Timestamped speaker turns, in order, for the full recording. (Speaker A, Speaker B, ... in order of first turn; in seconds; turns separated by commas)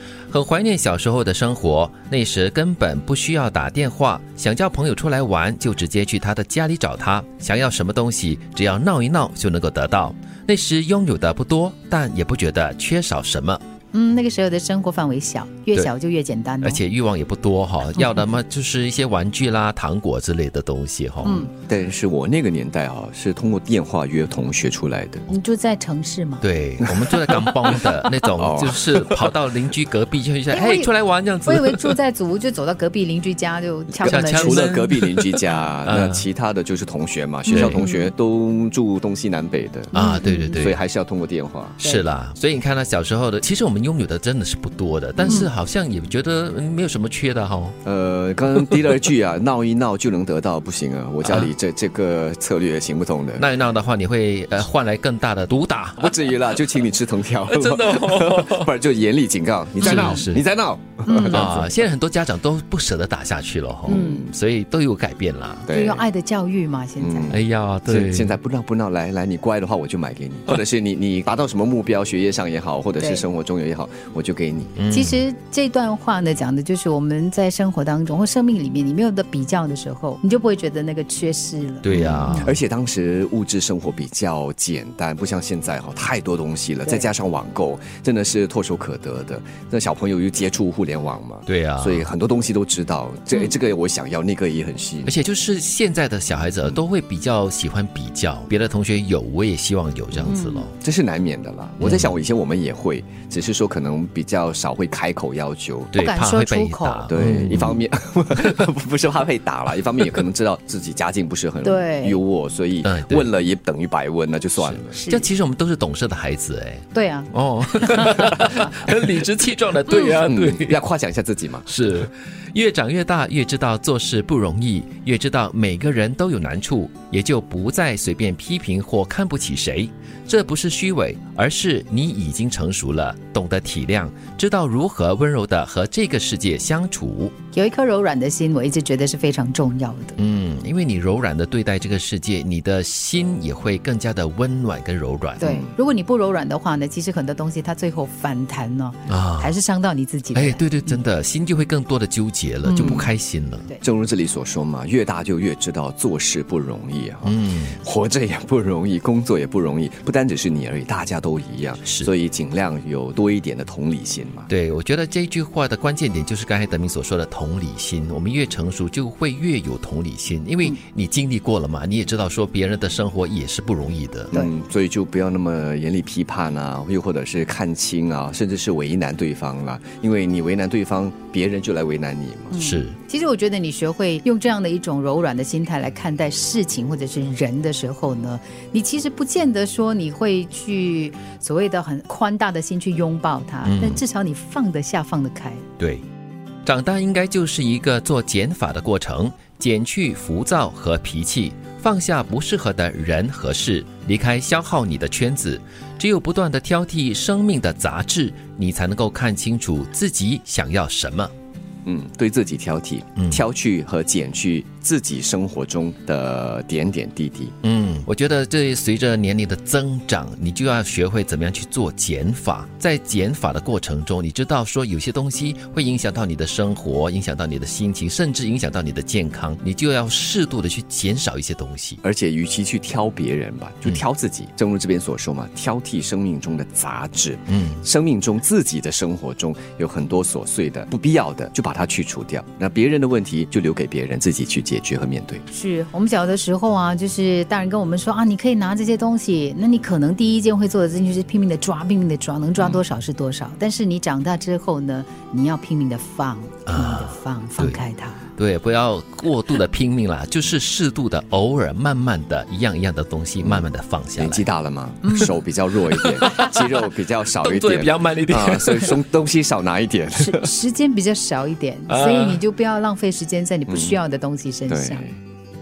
Speaker A: 0.3-13.6, Speaker B: 13.9-16.8, Speaker A: 16.6-21.5, Speaker B: 21.2-21.5, Speaker C: 21.7-25.2, Speaker B: 25.3-26.4, Speaker A: 26.4-31.9, Speaker C: 26.8-29.3, Speaker B: 30.5-30.9, Speaker B: 31.4-34.7, Speaker C: 33.9-40.0, Speaker A: 34.0-36.2, Speaker B: 37.5-38.1, Speaker A: 37.5-37.8, Speaker B: 39.9-40.6, Speaker A: 39.9-40.8, Speaker C: 40.5-41.8, Speaker A: 41.8-47.8, Speaker C: 45.2-45.5, Speaker C: 47.8-53.4, Speaker A: 51.2-51.5, Speaker A: 53.4-56.2, Speaker C: 56.0-61.8, Speaker A: 57.5-58.7, Speaker A: 59.8-60.4, Speaker B: 61.1-61.5, Speaker A: 61.3-65.7, Speaker B: 63.9-64.3, Speaker C: 63.9-64.2, Speaker C: 65.7-66.1, Speaker B: 65.7-67.4, Speaker C: 67.0-74.8, Speaker A: 67.3-68.4, Speaker B: 73.0-73.3, Speaker A: 74.8-75.2, Speaker B: 74.9-82.5, Speaker A: 81.8-82.6, Speaker C: 81.9-95.2, Speaker A: 91.5-92.1, Speaker A: 95.1-100.7, Speaker B: 100.2-100.7, Speaker C: 100.8-105.9, Speaker A: 101.8-102.2, Speaker A: 105.9-107.8, Speaker B: 106.0-107.1, Speaker C: 107.1-115.0, Speaker B: 111.6-112.2, Speaker A: 112.8-113.3, Speaker A: 114.6-120.8, Speaker B: 115.0-115.3, Speaker B: 116.9-118.5, Speaker B: 119.9-120.2, Speaker C: 120.2-121.7, Speaker A: 121.7-137.3, Speaker B: 137.5-140.2, Speaker A: 140.2-145.5, Speaker B: 145.4-151.0, Speaker C: 145.4-145.7, Speaker A: 149.1-149.5, Speaker A: 150.3-153.7, Speaker B: 152.6-153.1, Speaker C: 152.8-153.1, Speaker C: 153.8-164.5, Speaker A: 157.2-157.8, Speaker A: 161.8-162.1, Speaker A: 164.5-174.3, Speaker C: 174.3-182.5, Speaker B: 182.5-195.7, Speaker A: 182.5-183.0, Speaker A: 193.6-194.0, Speaker A: 195.8-196.0, Speaker A: 196.7-211.3, Speaker C: 211.8-217.5, Speaker A: 213.2-213.4, Speaker A: 217.6-232.0, Speaker C: 232.0-245.4, Speaker A: 237.5-237.8, Speaker B: 245.5-258.2, Speaker A: 256.7-257.8, Speaker A: 258.4-264.5, Speaker C: 263.4-270.5, Speaker B: 265.0-265.3, Speaker A: 265.9-266.6, Speaker A: 267.4-269.0, Speaker B: 270.2-275.0, Speaker A: 271.9-272.4, Speaker C: 273.7-274.0, Speaker C: 274.7-275.1